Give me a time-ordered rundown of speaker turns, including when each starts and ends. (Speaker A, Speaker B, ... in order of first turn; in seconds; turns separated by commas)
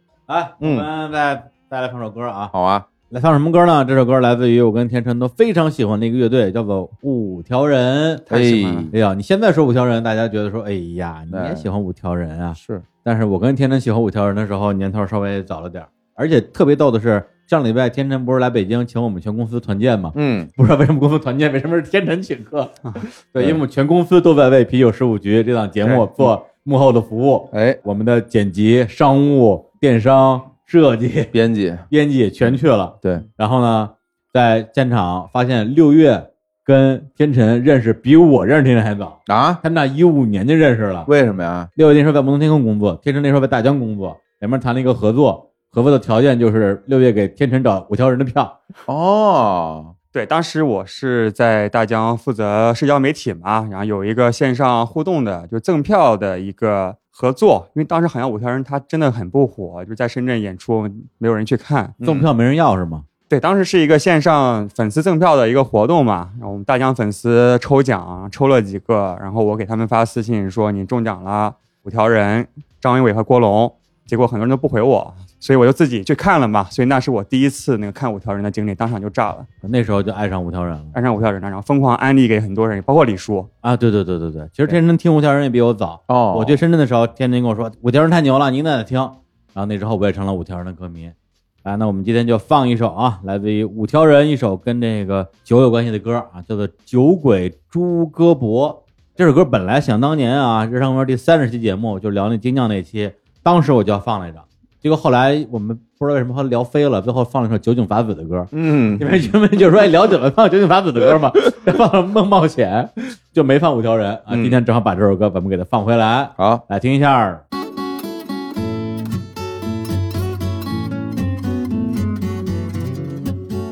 Speaker A: 0.3-2.5, Speaker B: 0.6-0.9, Speaker B: 2.5-2.9, Speaker A: 3.1-8.2, Speaker C: 8.3-8.9, Speaker B: 8.3-8.9, Speaker A: 8.9-31.3, Speaker B: 11.3-11.7, Speaker B: 12.6-12.9, Speaker B: 20.1-20.5, Speaker B: 27.5-27.8, Speaker B: 31.3-31.9, Speaker A: 31.9-41.1, Speaker B: 39.3-39.6, Speaker B: 41.1-41.7, Speaker A: 41.8-48.6, Speaker B: 48.9-49.9, Speaker C: 50.1-62.0, Speaker A: 62.0-63.1, Speaker C: 63.3-79.5, Speaker A: 79.6-81.0, Speaker C: 80.9-83.5, Speaker A: 83.6-117.4, Speaker B: 86.1-86.6, Speaker B: 108.5-109.3, Speaker B: 114.3-114.6, Speaker B: 116.4-116.6